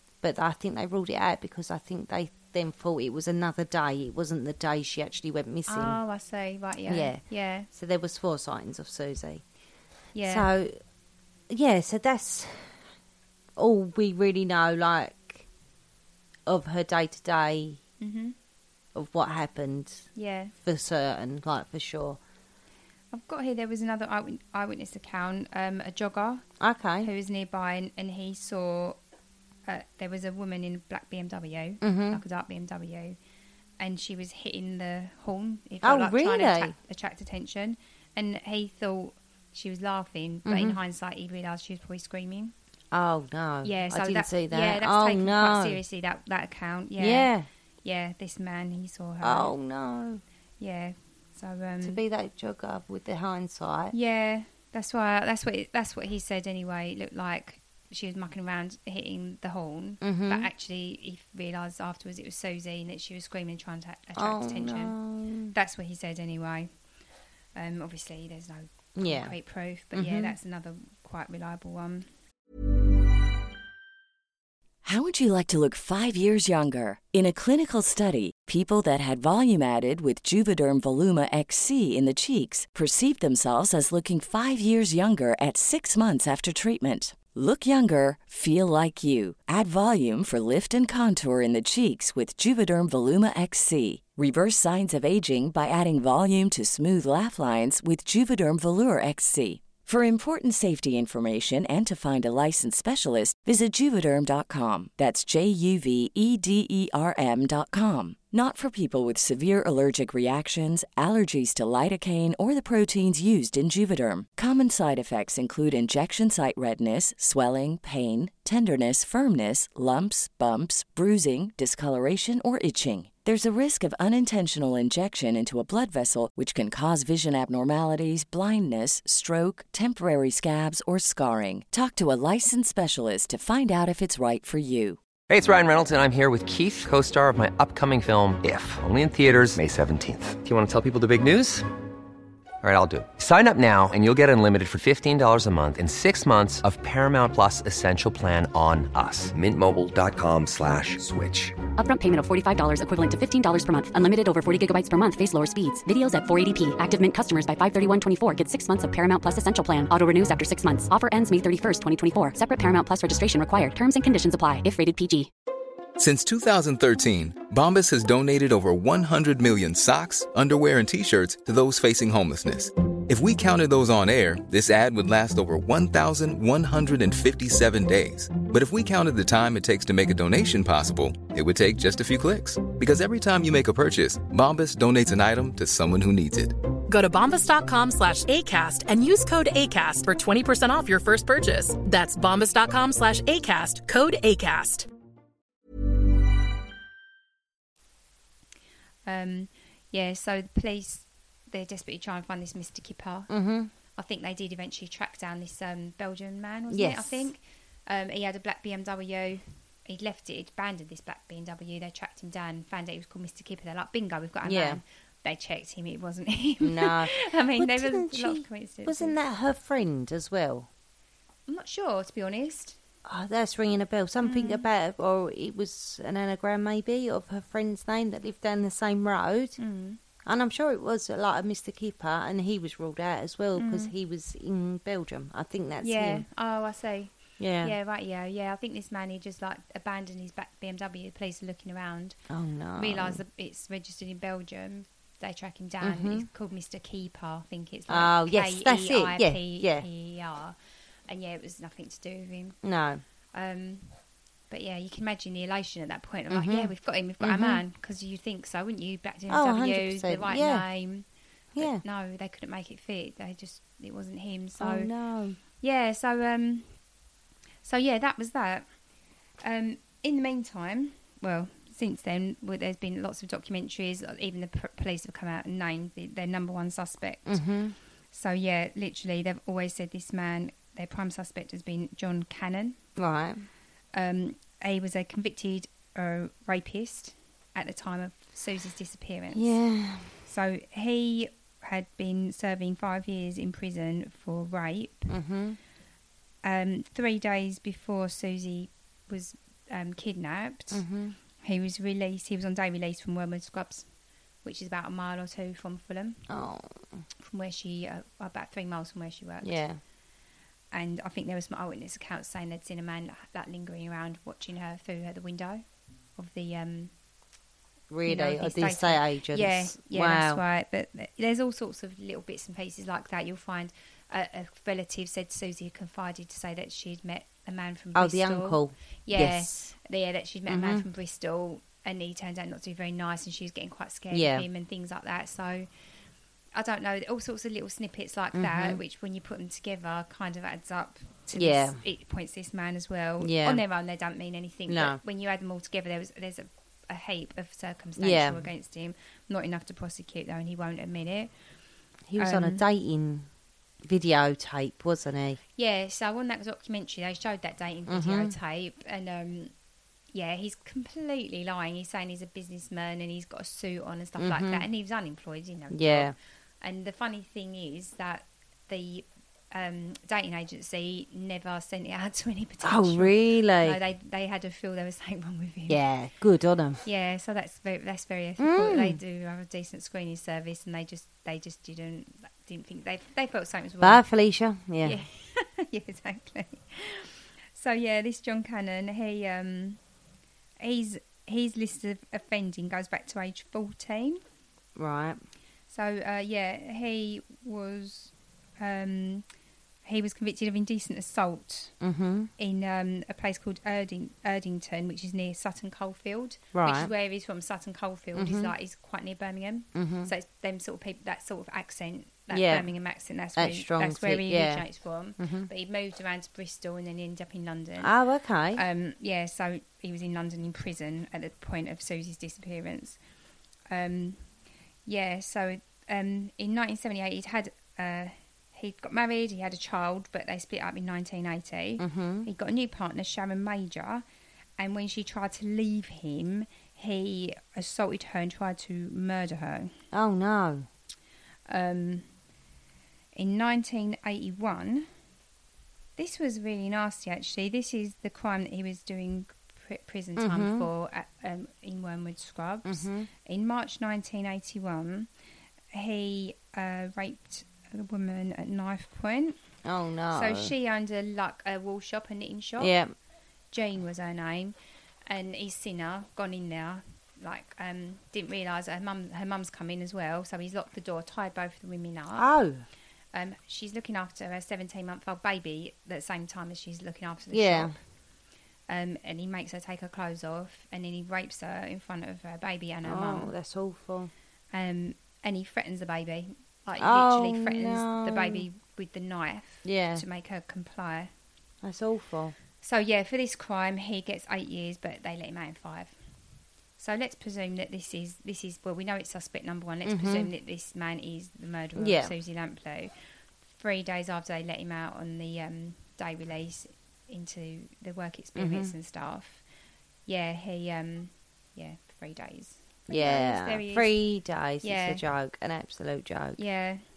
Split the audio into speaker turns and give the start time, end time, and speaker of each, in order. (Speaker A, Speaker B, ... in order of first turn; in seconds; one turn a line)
Speaker A: 0.2-6.0
Speaker B: 5.7-7.7
Speaker A: 6.9-9.4
Speaker B: 10.2-10.5
Speaker A: 10.2-10.8
Speaker A: 11.5-12.8
Speaker A: 13.6-15.5
Speaker A: 16.5-17.8
Speaker B: 18.0-18.4
Speaker A: 18.9-22.2
Speaker B: 20.1-20.5
Speaker B: 23.1-26.5
Speaker A: 26.6-27.1
Speaker B: 27.0-29.0
Speaker B: 29.7-33.2
Speaker A: 31.8-32.2
Speaker B: 33.8-42.5
Speaker A: 35.8-36.8
Speaker A: 40.5-40.8
Speaker A: 42.9-45.8
Speaker B: 43.6-47.3
Speaker A: 47.0-47.5
Speaker B: 47.8-49.5
Speaker A: 49.2-50.2
Speaker B: 50.6-52.0
Speaker A: 51.8-54.0
Speaker B: 53.9-65.0
Speaker A: 60.0-60.5
Speaker A: 64.2-65.5
Speaker B: 65.5-66.7
Speaker B: 67.5-72.1
Speaker A: 69.0-69.4
Speaker A: 69.9-70.3
Speaker C: 74.8-135.0
Speaker D: 135.3-141.7
Speaker D: 142.6-151.6
Speaker E: 151.8-165.3
Speaker F: 166.0-186.6
Speaker G: 186.9-194.9
Speaker B: 199.1-203.3
Speaker A: 203.3-203.7
Speaker B: 204.0-219.2
Speaker A: 206.7-207.3
Speaker A: 214.4-214.8
Speaker A: 216.6-220.7
Speaker B: 221.5-222.8
Speaker A: 223.1-229.6
Speaker B: 224.2-224.7
Speaker B: 229.6-230.0
Speaker A: 230.2-236.3
Speaker B: 233.6-233.9
Speaker B: 235.8-242.2
Speaker A: 237.4-237.8
Speaker A: 242.3-243.2
Speaker B: 242.8-250.6
Speaker A: 245.8-246.3
Speaker A: 247.9-249.9
Speaker B: 251.1-252.6
Speaker A: 252.6-253.0
Speaker B: 253.3-253.9
Speaker B: 254.5-261.1
Speaker A: 256.3-257.6
Speaker A: 259.3-260.7
Speaker A: 261.6-261.8
Speaker B: 261.6-264.9
Speaker A: 264.6-265.4
Speaker B: 265.6-266.7
Speaker B: 267.6-268.7
Speaker B: 269.4-277.4
Speaker A: 277.3-277.8
Speaker B: 278.1-282.8
Speaker A: 283.0-283.5
Speaker B: 283.9-289.6
Speaker A: 289.3-290.2
Speaker B: 290.2-295.1
Speaker A: 295.1-295.6
Speaker B: 296.4-300.9
Speaker A: 300.7-301.2
Speaker B: 301.4-303.9
Speaker B: 304.4-306.2
Speaker A: 306.3-307.0
Speaker B: 307.2-309.6
Speaker A: 309.4-309.8
Speaker B: 310.7-315.6
Speaker B: 316.2-316.9
Speaker A: 317.9-320.4
Speaker B: 318.1-335.7
Speaker A: 327.9-329.7
Speaker A: 330.5-330.9
Speaker A: 334.1-334.5
Speaker B: 336.5-351.3
Speaker A: 338.3-338.8
Speaker A: 341.4-341.8
Speaker A: 343.2-343.6
Speaker A: 344.7-345.0
Speaker A: 348.0-348.5
Speaker A: 352.1-353.3
Speaker B: 352.2-352.6
Speaker A: 353.8-355.4
Speaker B: 355.6-359.5
Speaker A: 357.9-358.4
Speaker B: 360.1-375.8
Speaker A: 364.2-364.7
Speaker A: 365.7-366.1
Speaker A: 372.6-373.8
Speaker A: 375.7-376.9
Speaker B: 376.8-384.0
Speaker A: 378.4-379.0
Speaker A: 383.8-385.0
Speaker B: 384.8-389.8
Speaker B: 390.6-394.2
Speaker A: 394.8-395.2
Speaker B: 395.7-399.3
Speaker B: 399.9-401.7
Speaker A: 401.8-402.3
Speaker B: 402.4-417.9
Speaker A: 406.5-406.9
Speaker A: 408.2-408.5
Speaker A: 409.8-410.1
Speaker A: 412.3-412.7
Speaker A: 413.4-414.7
Speaker A: 415.2-415.5
Speaker A: 417.8-418.6
Speaker B: 418.5-423.0
Speaker B: 423.7-424.2
Speaker B: 424.9-434.0
Speaker A: 431.8-432.3
Speaker B: 434.6-439.7
Speaker A: 439.9-440.7
Speaker B: 441.5-442.1
Speaker B: 443.1-444.9
Speaker B: 446.0-455.1
Speaker A: 450.2-450.7
Speaker A: 452.6-453.1
Speaker B: 455.7-459.4
Speaker A: 459.6-460.5
Speaker B: 460.1-462.8
Speaker A: 462.6-462.9
Speaker B: 463.5-464.6
Speaker B: 465.1-472.3
Speaker A: 472.1-472.6
Speaker B: 473.1-477.8
Speaker A: 477.3-477.8
Speaker B: 478.7-483.3
Speaker A: 482.8-484.1
Speaker B: 484.5-491.1
Speaker A: 486.8-488.5
Speaker A: 489.6-490.1
Speaker A: 491.6-492.4
Speaker B: 492.6-495.9
Speaker B: 496.8-502.9
Speaker A: 499.9-500.3
Speaker A: 501.8-502.1
Speaker B: 503.5-509.4
Speaker A: 508.4-508.7
Speaker B: 510.1-514.0
Speaker A: 512.9-516.4
Speaker B: 514.6-515.0
Speaker B: 516.4-516.8